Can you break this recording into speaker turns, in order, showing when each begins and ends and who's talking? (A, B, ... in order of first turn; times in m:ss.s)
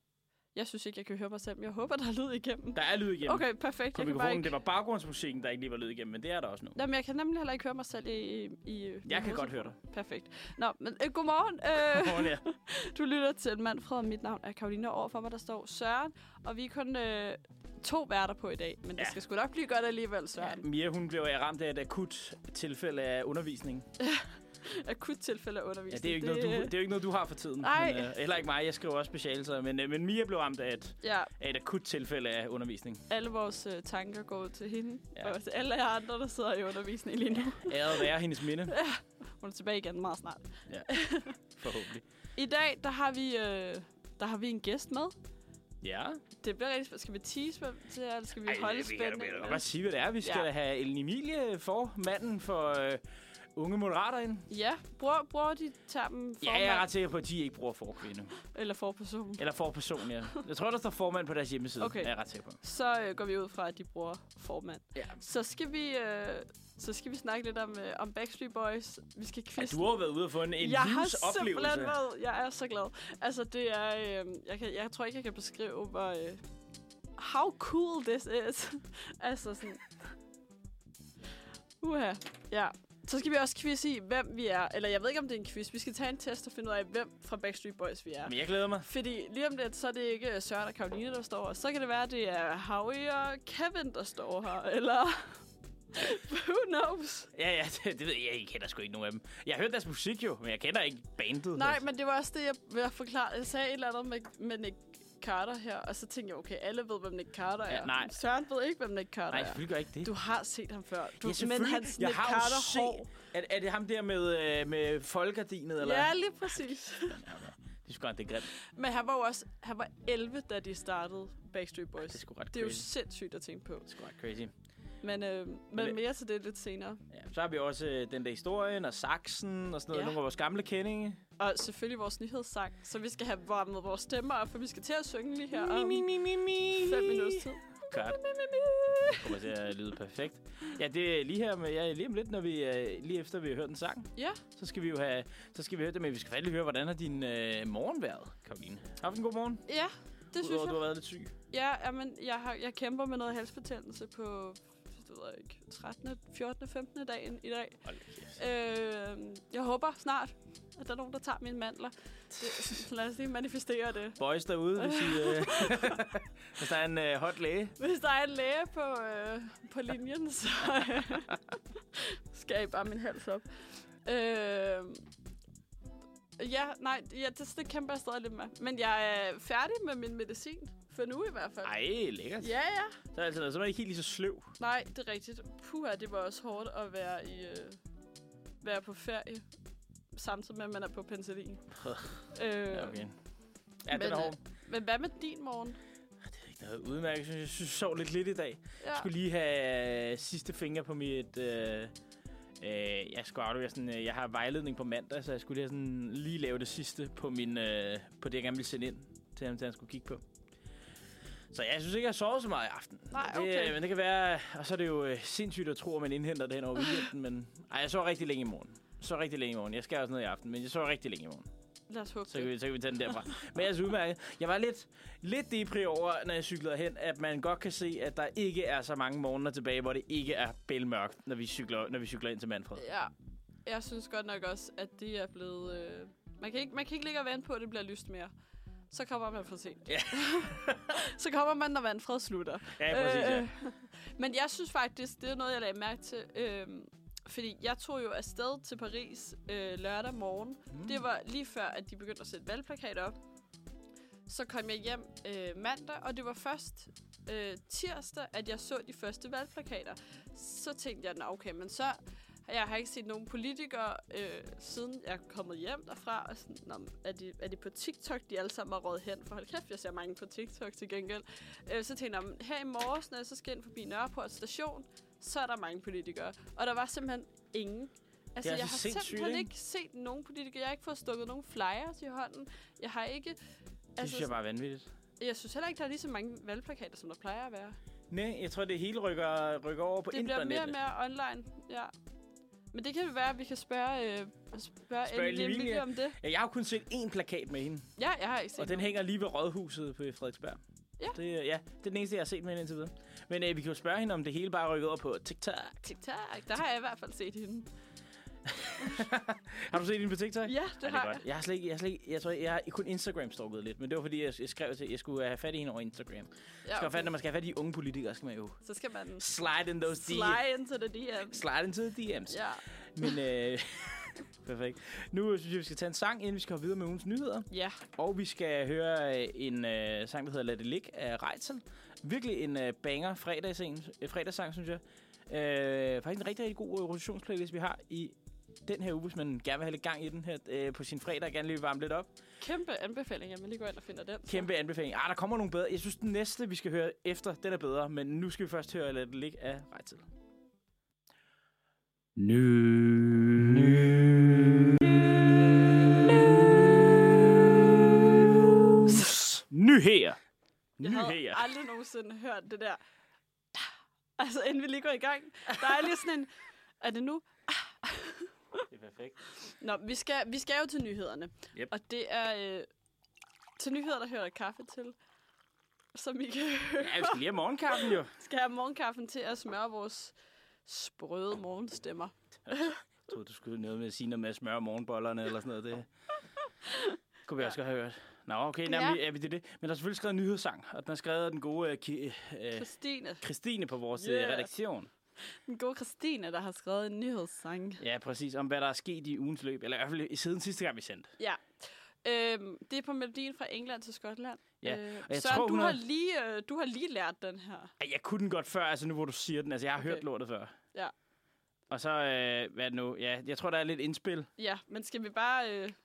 0:00.5-0:04.5 A
0:02.7-0:06.8 B
0:06.8-0:20.7 A
0:09.0-0:09.8 B
0:11.8-0:12.4 B
0:20.4-0:23.9 B
0:24.0-0:26.7 A
0:25.9-0:33.0 B
0:27.6-0:28.1 A
0:31.0-0:31.3 A
0:33.1-0:38.1 A
0:37.5-0:38.8 B
0:38.7-0:41.4 A
0:41.6-0:42.0 B
0:42.4-0:45.2 A
0:45.8-0:46.2 B
0:46.4-0:49.7 A
0:48.4-0:53.0 B
0:50.2-0:50.5 A
0:53.6-0:54.5 B
0:54.5-0:56.9 A
0:56.4-0:58.4 B
0:58.4-0:59.4 A
0:59.4-1:02.6 B
1:01.8-1:09.9 A
1:09.6-1:12.0 B
1:10.6-1:16.4 A
1:17.2-1:19.8 A
1:21.8-1:35.4 A
1:28.2-1:28.9 B
1:35.9-1:37.3 A
1:37.3-1:41.8 B
1:41.5-1:53.1 A
1:47.7-1:48.1 B
1:49.3-1:50.1 B
1:51.2-1:58.5 B
1:55.8-1:57.2 A
1:58.6-2:03.9 A
2:02.1-2:02.9 B
2:03.9-2:04.5 B
2:05.0-2:07.0 A
2:07.1-2:11.2 B
2:09.9-2:10.2 A
2:11.4-2:16.1 A
2:15.5-2:18.2 B
2:16.8-2:19.4 A
2:19.2-2:29.7 B
2:24.2-2:24.4 A
2:29.7-2:30.8 A
2:30.4-2:31.3 B
2:31.5-2:37.8 A
2:37.8-2:38.4 B
2:38.4-2:44.2 A
2:42.4-2:42.8 B
2:44.2-2:47.8 B
2:44.8-2:46.0 A
2:47.8-2:51.4 A
2:51.9-2:53.4 A
2:54.0-2:55.0 A
2:56.4-3:01.7 A
3:01.6-3:02.5 B
3:02.4-3:03.0 A
3:03.1-3:04.5 B
3:04.6-3:07.8 A
3:08.6-3:09.4 A
3:10.1-3:11.6 A
3:11.8-3:13.1 B
3:12.3-3:13.0 A
3:13.8-3:14.4 B
3:13.9-3:15.8 A
3:16.2-3:21.9 B
3:18.8-3:19.1 A
3:22.6-3:30.2 B
3:31.5-3:41.5 B
3:33.1-3:33.8 A
3:41.9-3:42.5 A
3:42.3-3:52.9 B
3:52.8-3:53.1 A
3:53.6-3:58.3 A
3:58.9-4:13.2 A
3:59.9-4:00.9 B
4:02.8-4:03.5 B
4:10.7-4:11.0 B
4:14.3-4:43.4 A
4:38.4-4:39.5 B
4:44.0-4:44.3 A
4:44.0-4:44.9 B
4:45.2-4:47.8 A
4:48.1-4:50.8 B
4:50.1-4:51.9 A
4:52.7-4:56.2 A
4:55.1-4:57.9 B
4:58.0-4:58.8 A
4:58.6-5:00.6 B
5:01.1-5:05.8 B
5:05.8-5:07.7 A
5:08.5-5:18.6 B
5:10.4-5:11.2 A
5:16.7-5:17.1 A
5:18.6-5:19.3 A
5:19.2-5:20.4 B
5:19.9-5:21.4 A
5:21.3-5:22.4 B
5:22.3-5:22.6 A
5:23.0-5:42.1 B
5:27.5-5:27.8 A
5:42.4-5:44.5 A
5:44.3-5:50.1 B
5:52.2-6:00.2 B
6:00.8-6:01.5 B
6:00.8-6:02.8 A
6:04.2-6:08.6 A
6:08.7-6:09.2 B
6:09.5-6:12.7 A
6:13.6-6:15.0 A
6:15.9-6:17.2 A
6:16.8-6:18.1 B
6:17.9-6:20.2 A
6:20.7-6:22.8 A
6:23.0-6:25.9 B
6:27.3-6:32.7 B
6:28.7-6:29.0 A
6:32.5-6:33.2 A
6:33.2-6:34.9 B
6:34.0-6:34.5 A
6:35.4-6:37.8 A
6:37.8-6:41.1 B
6:41.2-6:41.4 A
6:42.0-6:47.7 A
6:44.6-6:45.8 B
6:47.8-6:50.5 B
6:51.7-6:54.3 B
6:54.4-6:55.8 A